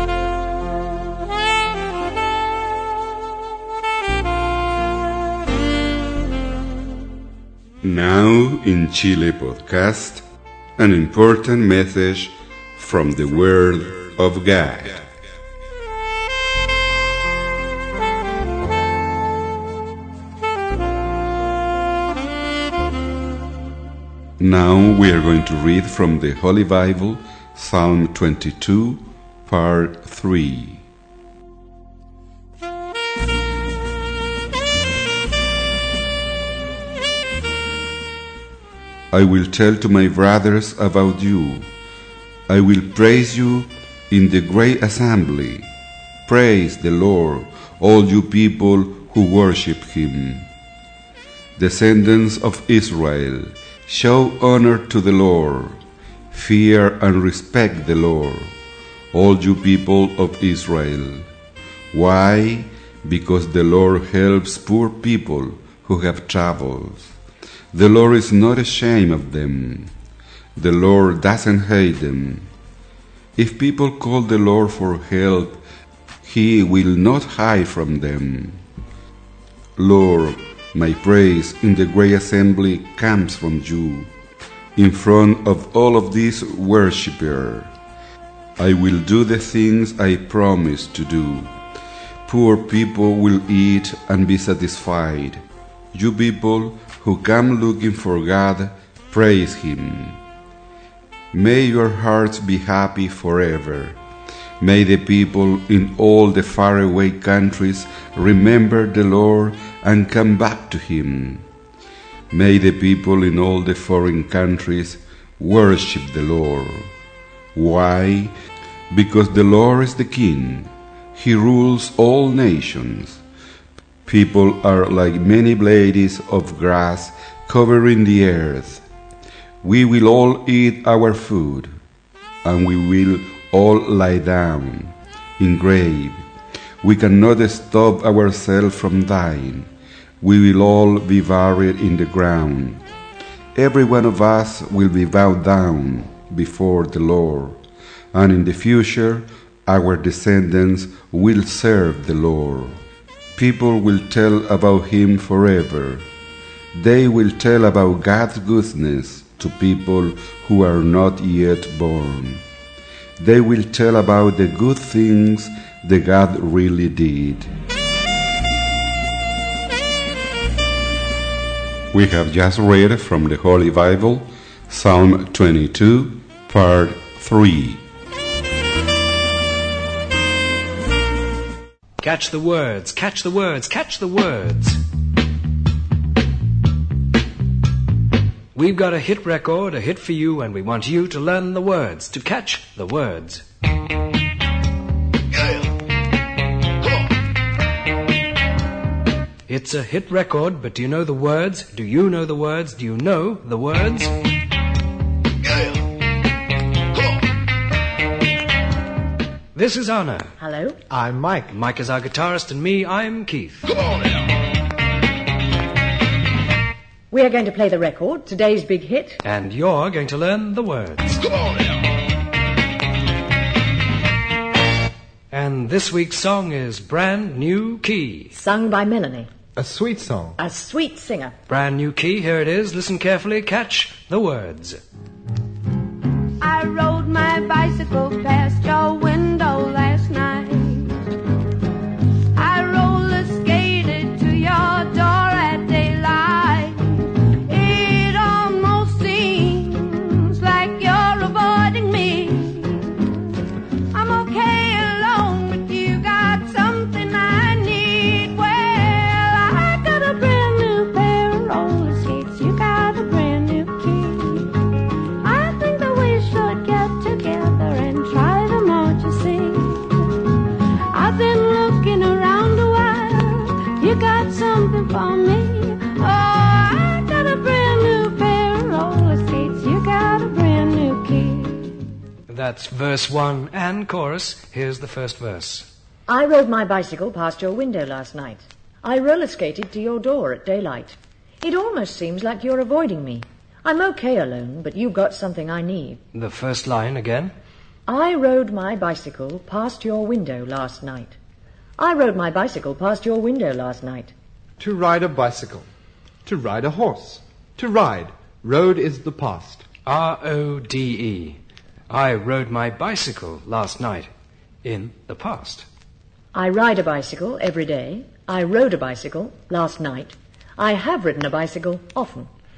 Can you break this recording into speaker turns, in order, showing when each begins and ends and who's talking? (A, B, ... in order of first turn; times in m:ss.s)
0:07.8-0:10.2 A
0:10.8-0:15.0 A
0:24.4-0:30.8 A
0:39.1-0:41.7 A
0:42.5-0:45.7 A
0:46.3-0:50.5 A
0:51.6-0:55.8 A
0:56.3-0:58.5 A
0:59.1-1:01.3 A
1:01.9-1:07.1 A
1:07.7-1:09.9 A
1:10.6-1:12.5 A
1:13.4-1:15.6 A
1:16.2-1:18.6 A
1:19.8-1:24.1 A
1:24.8-1:27.7 A
1:28.6-1:31.5 A
1:32.3-1:35.4 A
1:35.9-1:40.2 A
1:41.3-1:44.0 A
1:44.6-1:51.4 A
1:52.3-1:56.9 A
1:57.6-1:58.3 A
1:58.9-2:03.2 A
2:04.1-2:08.8 A
2:09.6-2:11.7 A
2:12.4-2:16.2 A
2:16.8-2:19.7 A
2:20.2-2:22.8 A
2:23.6-2:27.6 A
2:28.1-2:32.8 A
2:33.4-2:36.0 A
2:36.7-2:42.4 A
2:43.2-2:47.5 A
2:51.9-2:57.8 A
3:02.0-3:04.8 B
3:08.5-3:13.4 B
3:19.5-3:24.2 B
3:29.5-3:30.3 B
3:30.4-3:30.8 C
3:30.9-3:31.6 D
3:31.5-3:33.8 B
3:37.1-3:39.2 C
3:39.2-3:41.3 B
3:45.3-3:48.3 B
3:48.3-3:49.3 C
3:49.6-3:50.4 D
3:50.4-3:51.4 C
3:51.5-3:54.8 B
3:56.4-4:01.1 E
4:02.3-4:13.4 E
4:13.9-4:24.6 E
4:25.2-4:30.2 E
4:30.9-4:41.8 E
4:42.3-4:45.7 B
4:46.1-4:56.0 C
4:56.1-4:57.3 B
4:57.9-5:01.2 C
5:01.8-5:04.1 C
5:04.6-5:05.7 D
5:06.2-5:09.6 D
5:09.9-5:11.4 B
5:11.9-5:14.1 B
5:14.6-5:15.7 B
5:16.3-5:22.3 C